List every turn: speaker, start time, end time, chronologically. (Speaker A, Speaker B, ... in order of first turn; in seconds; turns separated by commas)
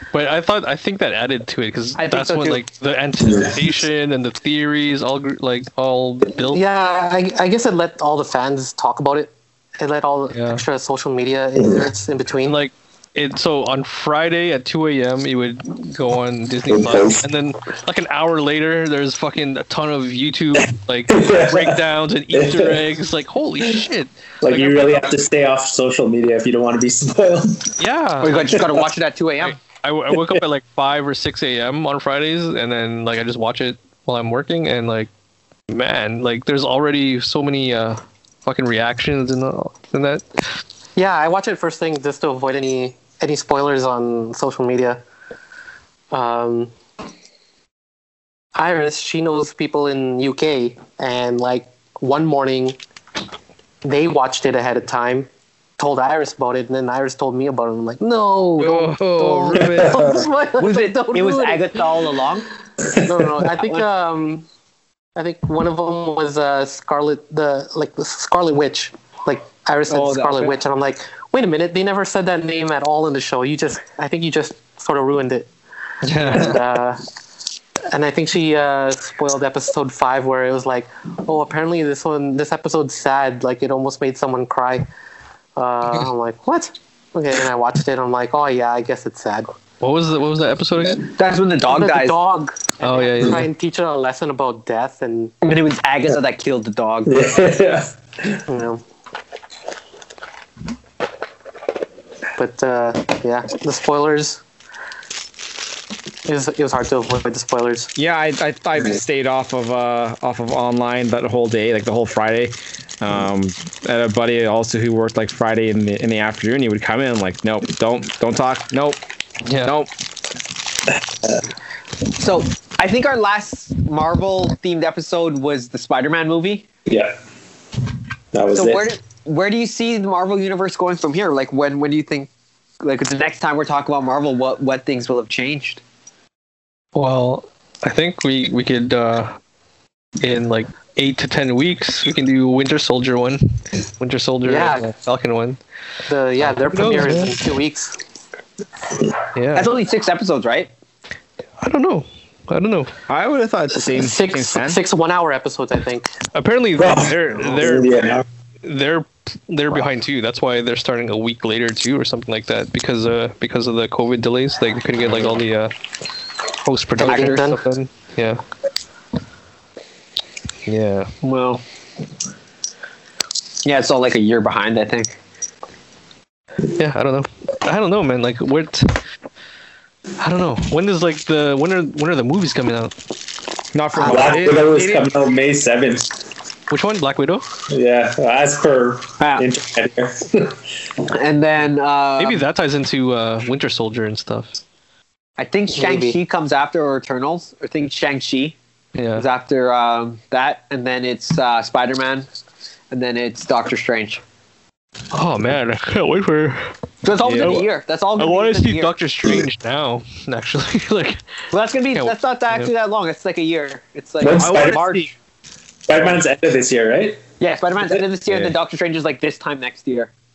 Speaker A: 0.1-6.6, Speaker B: 2.0-2.6, Speaker C: 6.5-12.6, Speaker A: 10.3-10.6, Speaker A: 12.4-25.1, Speaker D: 16.7-17.2, Speaker D: 21.1-21.8, Speaker D: 22.3-22.8, Speaker D: 24.4-27.7, Speaker A: 27.8-28.6, Speaker B: 28.2-29.6, Speaker A: 29.4-35.1, Speaker A: 35.7-40.4, Speaker C: 41.0-45.0, Speaker C: 46.1-46.7, Speaker C: 48.5-52.8, Speaker C: 53.8-61.8, Speaker E: 58.7-59.9, Speaker D: 59.5-60.2, Speaker B: 60.6-62.5, Speaker C: 62.9-64.5, Speaker B: 63.6-63.8, Speaker C: 65.2-75.5, Speaker B: 69.9-70.5, Speaker A: 76.0-76.6, Speaker C: 76.2-77.0, Speaker C: 77.9-84.8, Speaker C: 85.5-89.5, Speaker A: 89.8-91.1, Speaker B: 91.0-92.2, Speaker C: 91.6-95.3, Speaker A: 92.8-93.5, Speaker B: 95.4-97.3, Speaker D: 97.0-98.4, Speaker C: 98.5-98.8, Speaker C: 102.4-104.4, Speaker C: 106.2-107.9, Speaker E: 108.0-119.0, Speaker A: 119.4-119.7, Speaker E: 119.6-119.9, Speaker B: 122.1-126.7, Speaker D: 126.9-127.1, Speaker D: 128.3-128.9, Speaker B: 128.5-132.3, Speaker B: 132.8-135.8, Speaker A: 136.9-139.4, Speaker A: 140.2-145.6, Speaker C: 144.4-144.9, Speaker C: 146.1-148.0, Speaker A: 146.4-147.4, Speaker A: 149.3-149.7, Speaker B: 149.5-150.7, Speaker A: 151.6-152.9, Speaker E: 153.1-154.8, Speaker C: 153.7-156.1, Speaker A: 156.3-165.7, Speaker D: 156.8-158.2, Speaker A: 166.6-168.4, Speaker C: 167.0-167.6, Speaker B: 167.0-167.4, Speaker A: 170.7-171.1, Speaker B: 171.2-171.6, Speaker B: 173.6-175.2, Speaker A: 176.7-179.0, Speaker A: 180.2-182.9, Speaker E: 183.7-185.1, Speaker D: 184.0-186.1, Speaker A: 186.7-187.5, Speaker D: 187.7-190.6, Speaker B: 189.2-189.4, Speaker B: 191.1-192.4, Speaker A: 192.2-194.6, Speaker B: 195.4-198.6, Speaker C: 195.7-196.2, Speaker A: 198.9-199.2, Speaker B: 199.2-202.3, Speaker B: 202.9-204.2, Speaker A: 205.1-206.7, Speaker B: 207.0-208.9, Speaker E: 207.2-207.6, Speaker A: 207.3-211.2, Speaker B: 211.5-215.1, Speaker A: 211.9-212.7, Speaker D: 214.2-214.8, Speaker E: 214.3-215.1, Speaker D: 215.9-217.2, Speaker B: 217.4-220.1, Speaker E: 218.3-218.5